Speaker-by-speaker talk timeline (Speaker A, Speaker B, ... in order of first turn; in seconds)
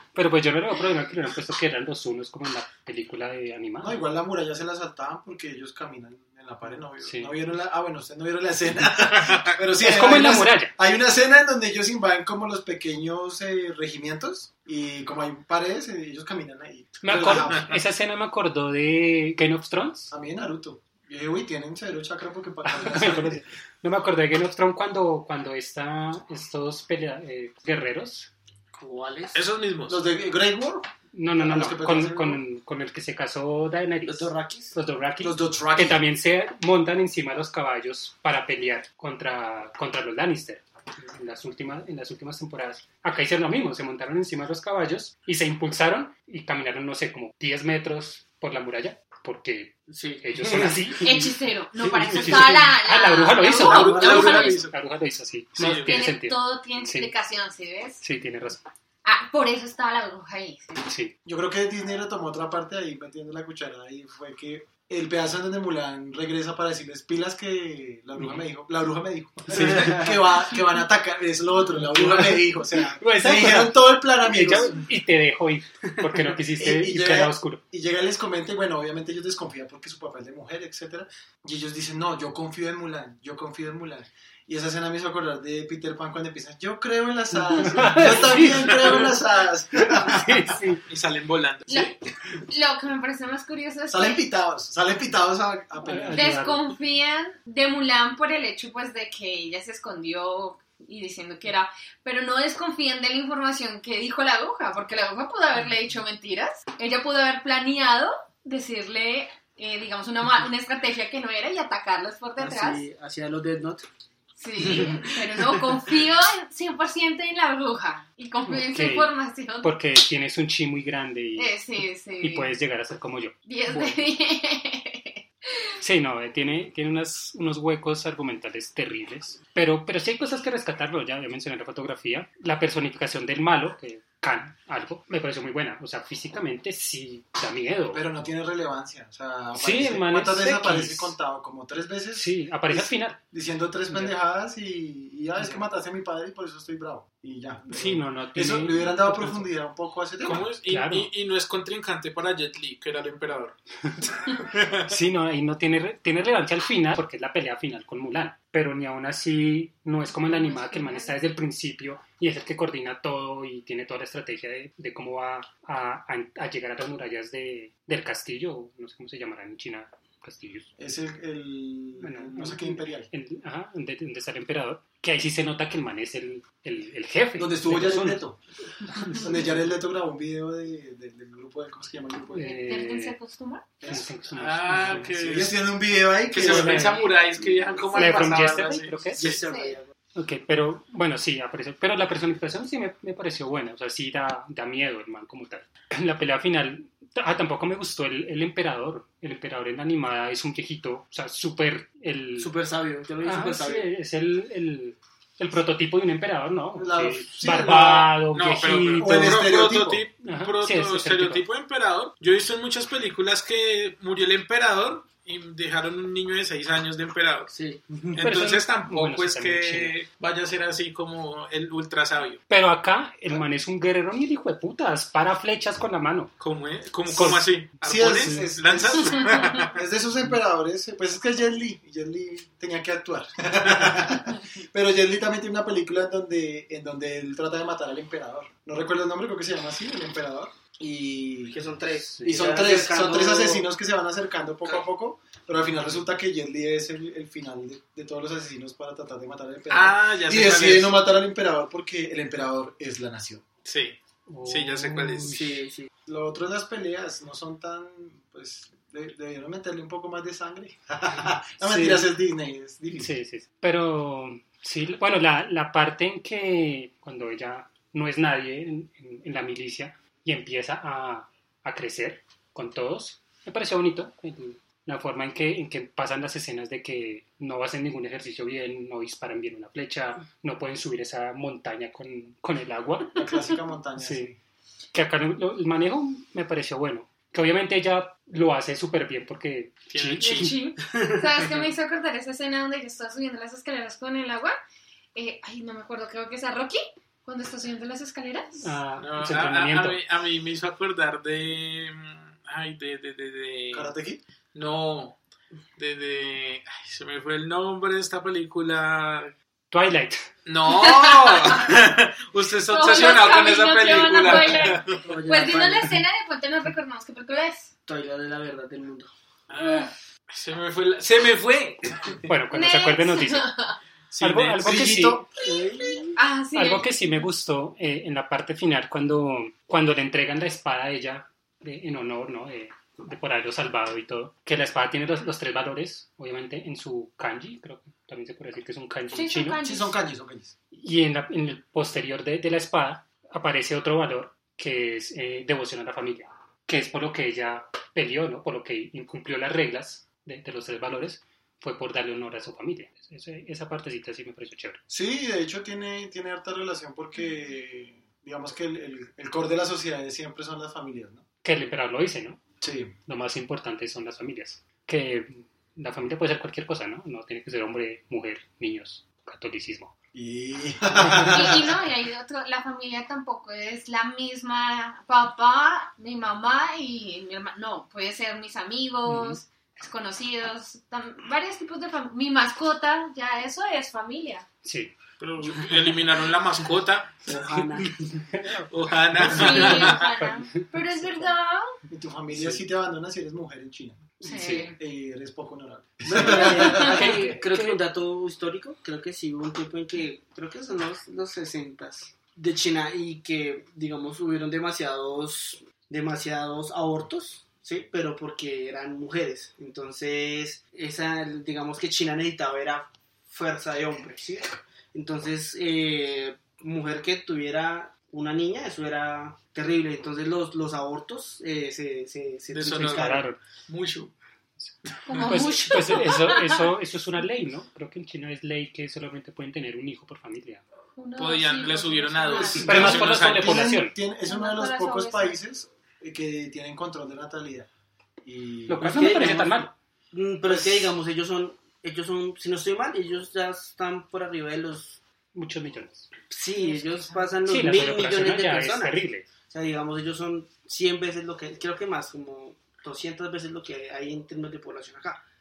Speaker A: 0.1-4.0, 7.0-7.3, 9.8-10.7, 17.0-20.1, 22.6-28.3, 31.1-51.3, 51.9-57.1, 58.0-58.6, 60.8-61.1, 68.2-68.4, 69.5-70.1, 71.9-77.6, 87.5-89.2, 89.7-90.8, 95.8-96.7, 118.5-121.5, 122.2-124.0, 125.8-138.1, 139.5-141.1, 142.1-143.2, 143.9-144.1, 147.7-149.5, 150.2-151.1, 154.9-170.7, 172.0-178.2, 178.9-179.2, 182.3-183.2, 183.8-185.1, 186.3-187.0, 187.9-189.2, 190.1-202.5, 203.2-209.4, 210.2-211.4, 218.2-219.9, 222.5-226.3, 228.2-228.5, 242.1-242.4, 254.3-255.6, 261.6-262.1, 262.9-283.4, 284.0-284.3, 284.9-290.5, 298.6-300.0, 309.7-310.3, 322.3-323.5, 324.2-325.2, 326.5-339.6, 340.7-354.8, 361.4-362.4, 363.1-369.9, 379.1-379.4, 384.6-384.9, 388.3-388.7, 389.2-391.3, 394.2-394.7, 396.2-397.8, 422.8-423.4, 424.6-430.6, 432.6-433.9, 438.7-439.7, 445.3-446.1, 447.4-449.3
Speaker B: 3.8-17.8, 20.1-23.4, 29.9-32.4, 35.2-36.0, 61.2-74.8, 76.6-90.5, 93.9-96.2, 137.9-150.4, 170.8-173.1, 177.3-178.4, 179.1-182.5, 183.8-184.1, 184.7-187.0, 206.8-208.1, 209.0-210.1, 227.1-241.6, 242.2-253.4, 256.1-263.1, 283.1-284.4, 303.7-304.2, 324.6-325.3, 339.6-340.5, 354.9-361.2, 362.6-362.9, 370.1-371.7, 391.9-397.2, 432.3-437.7, 438.2-439.3, 440.4-440.9
Speaker C: 28.7-29.4, 34.0-34.8, 49.9-51.1, 51.8-52.6, 53.8-54.3, 69.8-70.1, 112.4-113.8, 114.6-116.0, 189.1-189.9, 202.4-203.9, 217.5-218.3, 241.5-243.7, 255.3-255.9, 315.0-316.0, 317.9-319.1, 325.4-326.2, 387.2-388.2, 396.1-423.3, 438.8-445.0, 446.3-455.2
Speaker D: 29.3-30.0, 53.5-54.7, 55.5-56.0, 90.9-92.0, 150.2-154.9, 184.3-185.6, 186.3-189.4, 208.3-217.5, 218.1-222.4, 226.4-229.7, 249.7-251.0, 253.6-255.4, 289.9-290.6, 299.0-303.9, 304.5-305.2, 305.8-309.3, 310.4-315.0, 319.5-322.3, 324.1-324.7, 385.2-387.2, 388.7-390.1, 422.5-424.1, 431.2-433.6
Speaker E: 51.0-54.7, 55.8-58.0, 59.0-60.8, 91.7-94.2, 96.1-112.8, 114.4-119.7, 121.3-122.5, 123.5-125.7, 160.1-161.2, 182.4-183.7, 187.8-188.6, 189.4-189.8, 290.2-294.6, 295.1-298.8, 310.7-311.7, 312.7-317.7, 319.6-319.9, 322.5-323.8, 326.1-326.9, 339.1-339.9, 371.3-384.5, 389.3-391.8, 394.2-394.8, 425.1-426.7, 430.9-433.1, 434.2-435.4, 446.6-447.4